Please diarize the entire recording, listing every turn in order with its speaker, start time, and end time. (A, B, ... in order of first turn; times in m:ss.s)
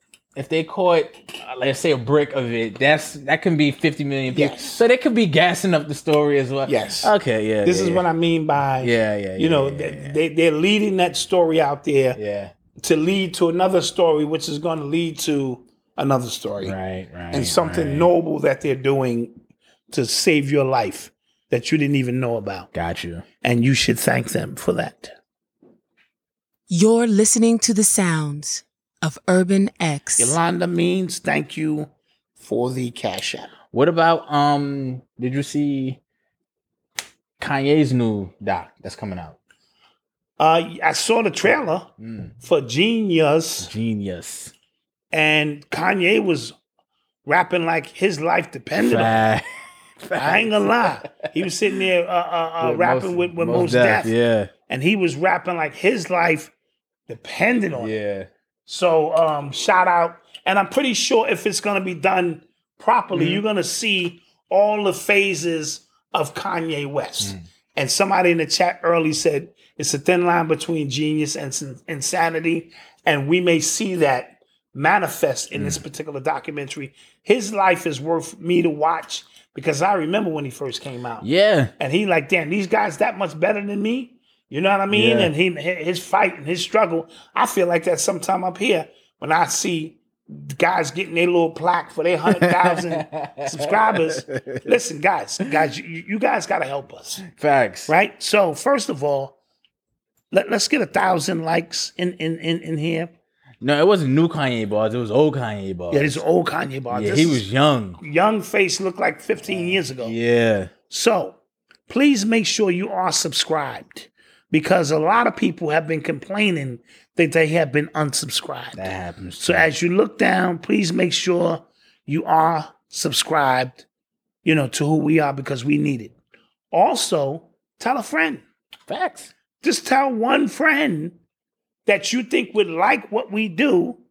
0:00.4-0:08.0 A
0:04.3-0:04.8 B
0:06.6-0:07.1 B
0:07.6-0:12.2 B
0:08.8-0:10.2 A
0:12.1-0:12.5 A
0:12.8-0:16.7 B
0:16.6-0:18.1 A
0:17.3-0:19.3 B
0:19.9-0:22.7 B
0:22.7-0:23.2 A
0:23.4-0:25.1 B
0:26.7-0:30.4 C
0:30.2-0:31.9 B
0:32.4-0:33.5 B
0:33.7-0:36.0 A
0:37.4-0:39.4 A
0:40.4-0:43.7 B
0:42.0-0:42.3 A
0:43.6-0:44.5 A
0:45.1-0:46.5 B
0:47.2-0:49.2 B
0:48.8-0:49.4 A
0:50.0-0:51.3 A
0:50.2-0:54.1 B
0:52.6-0:54.5 A
0:54.7-0:56.5 B
0:57.1-0:57.9 B
0:57.8-0:58.3 A
0:58.7-1:21.2 B
1:03.1-1:03.4 A
1:15.6-1:15.8 A
1:21.2-1:21.7 A
1:21.8-1:37.2 B
1:24.9-1:25.3 A
1:32.4-1:34.7 A
1:37.3-1:37.9 A
1:37.9-1:39.3 B
1:40.3-1:43.1 B
1:43.6-1:46.2 A
1:45.9-1:47.4 B
1:46.9-1:48.0 A
1:48.0-1:50.1 B
1:50.0-1:50.7 A
1:50.9-1:51.4 B
1:51.9-1:58.8 B
1:58.7-1:59.7 A
1:59.4-2:03.8 B
2:04.4-2:06.1 B
2:06.7-2:08.4 B
2:08.9-2:09.3 A
2:09.6-2:11.2 B
2:11.8-2:14.0 B